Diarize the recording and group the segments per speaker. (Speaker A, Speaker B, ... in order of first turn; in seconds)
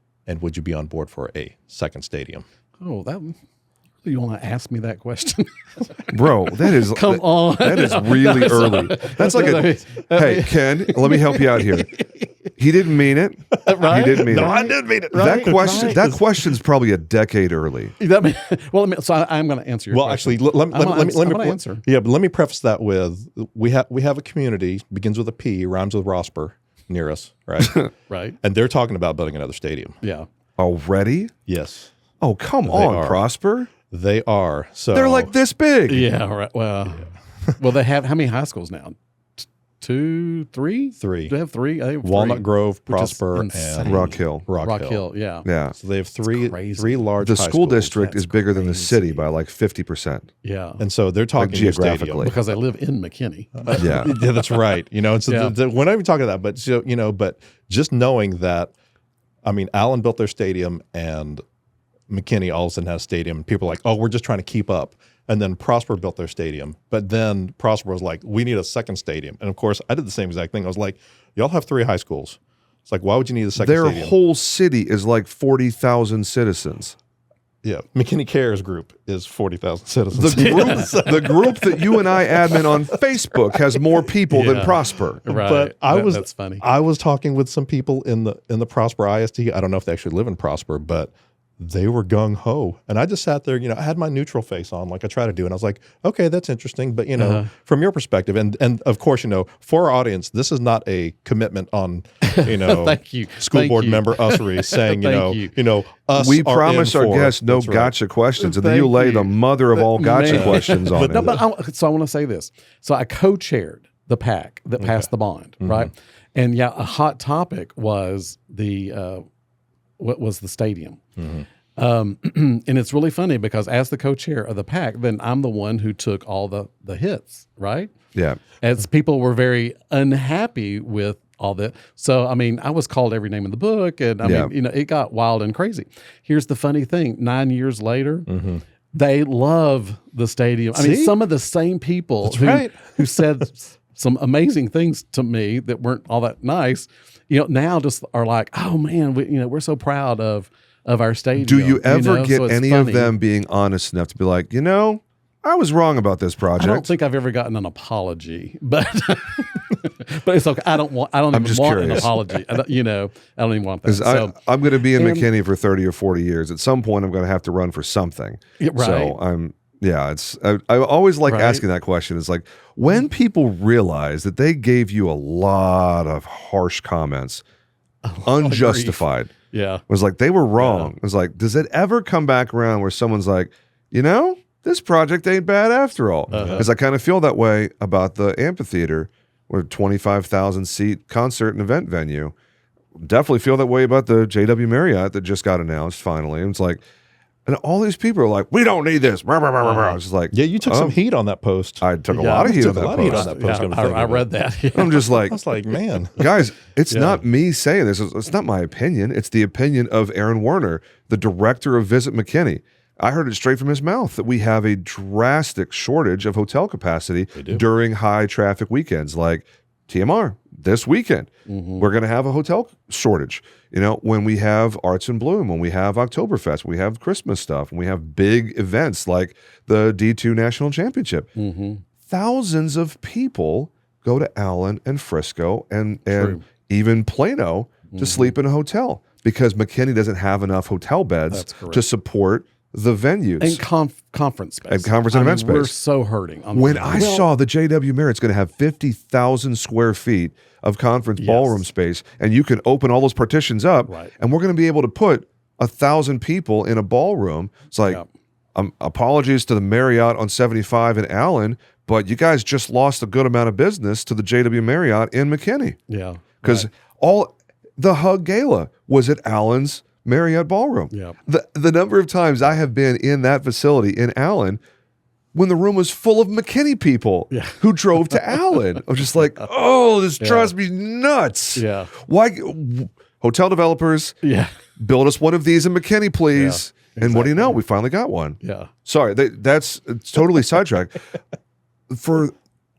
Speaker A: 0.3-2.5, 14.1-16.2, 19.9-27.9, 28.4-30.0, 31.5-31.9, 32.6-33.2, 33.9-35.3, 41.0-41.4, 42.0-45.1, 45.8-48.2, 50.8-52.3, 53.6-58.7, 59.4-61.4, 62.1-74.2, 77.6-83.0, 85.3-108.0, 110.3-111.4, 114.8-115.1, 115.6-115.9, 121.2-121.5, 138.3-138.6, 140.7-141.2, 142.2-143.2, 186.3-186.7, 200.3-204.3, 205.1-206.3, 217.3-217.6
Speaker B: 2.8-3.4, 4.0-12.3, 13.6-16.2, 18.0-21.8, 28.1-28.4, 30.0-30.3, 35.9-39.0, 39.8-45.5, 46.2-47.1, 48.1-49.2, 50.4-50.8, 52.2-54.3, 55.3-55.5, 80.4-81.0, 84.3-86.6, 97.2-97.5, 102.2-105.5, 108.4-119.2, 120.0-121.0, 121.8-127.9, 128.6-138.3, 138.9-153.2, 156.5-165.3, 168.6-169.2, 171.3-171.7, 178.1-179.8, 180.6-180.9, 186.3-186.7, 199.6-200.0, 202.1-205.2, 206.9-207.2, 221.5-221.9, 231.4-231.8, 236.1-236.4, 237.9-238.4, 241.3-241.8, 243.4-247.3, 251.2-251.7, 253.9-254.1, 265.9-266.7, 270.9-271.2, 277.3-278.8, 280.2-280.5, 281.6-281.9, 284.2-284.5, 286.3-287.6, 288.4-288.7
Speaker C: 6.1-11.9, 12.6-17.9, 30.6-31.3, 32.2-33.7, 34.9-36.1, 43.8-44.5, 45.5-45.8, 47.2-50.3, 51.4-52.4, 53.8-54.1, 73.6-77.0, 80.1-85.2, 106.2-111.4, 128.1-128.4, 134.2-134.5, 151.4-156.9, 161.3-162.2, 163.8-177.4, 178.2-179.3, 179.9-192.3, 193.0-196.8, 197.5-201.0, 201.8-203.3, 204.7-205.4, 206.2-231.3, 232.1-243.6, 244.7-245.8, 246.5-258.0, 258.6-265.8, 266.4-274.6, 275.3-284.2, 284.8-291.0, 291.9-292.3